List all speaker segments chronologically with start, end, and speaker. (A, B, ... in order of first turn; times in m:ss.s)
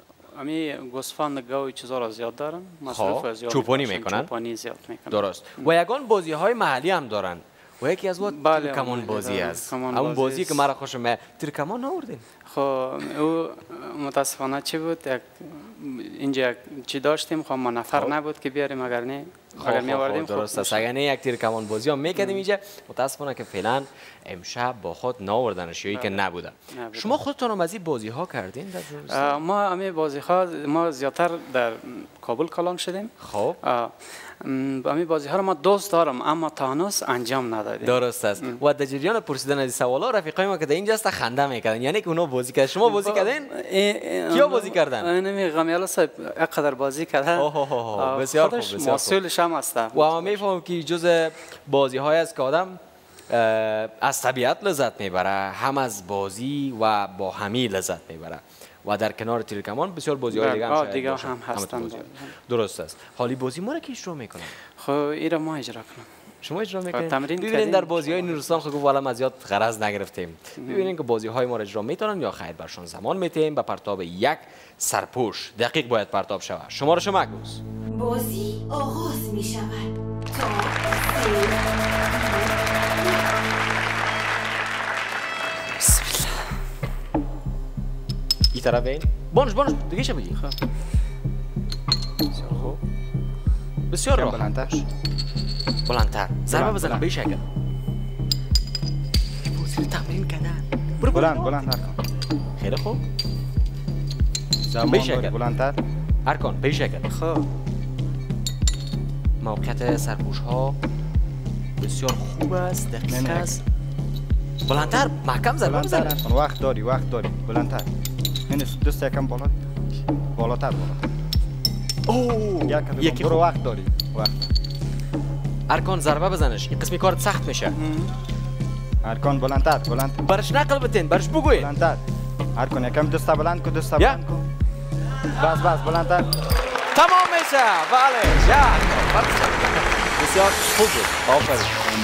0:00.3-0:05.7 A
0:02.9-0:04.3 B
0:05.1-0:12.2 B
0:08.2-0:10.6 A
0:12.5-0:20.9 A
0:19.6-0:29.4 B
0:22.1-0:22.4 A
0:25.9-0:26.2 A
0:26.7-0:27.2 A
0:29.1-0:38.6 A
0:33.2-0:33.6 B
0:37.8-0:43.5 B
0:42.8-0:50.4 A
0:44.3-0:45.1 B
0:47.4-0:49.2 B
0:49.9-1:04.5 B
1:00.3-1:02.3 A
1:04.8-1:06.1 A
1:06.4-1:17.6 B
1:06.9-1:08.6 A
1:10.6-1:10.9 A
1:17.9-1:23.3 C
1:25.8-1:26.6 A
1:28.5-1:30.4 B
1:32.3-1:32.7 A
1:32.5-1:32.8 B
1:33.9-1:34.8 B
1:34.1-1:34.7 D
1:35.8-1:37.4 B
1:36.5-1:37.1 D
1:39.5-1:41.6 B
1:41.0-1:42.0 D
1:42.6-1:43.0 B
1:44.6-1:45.8 D
1:44.8-1:45.3 B
1:46.2-1:47.1 B
1:47.0-1:47.5 A
1:49.4-1:50.8 B
1:51.8-1:53.6 B
1:53.1-1:53.5 D
1:54.6-1:56.2 B
1:55.6-1:57.9 D
1:58.5-1:59.7 D
2:00.3-2:01.1 D
2:02.1-2:03.5 B
2:02.6-2:04.5 D
2:05.7-2:07.8 B
2:07.7-2:08.1 A
2:09.0-2:10.2 D
2:10.2-2:11.7 B
2:11.5-2:12.0 D
2:12.5-2:14.5 D
2:15.4-2:16.3 D
2:16.9-2:21.7 B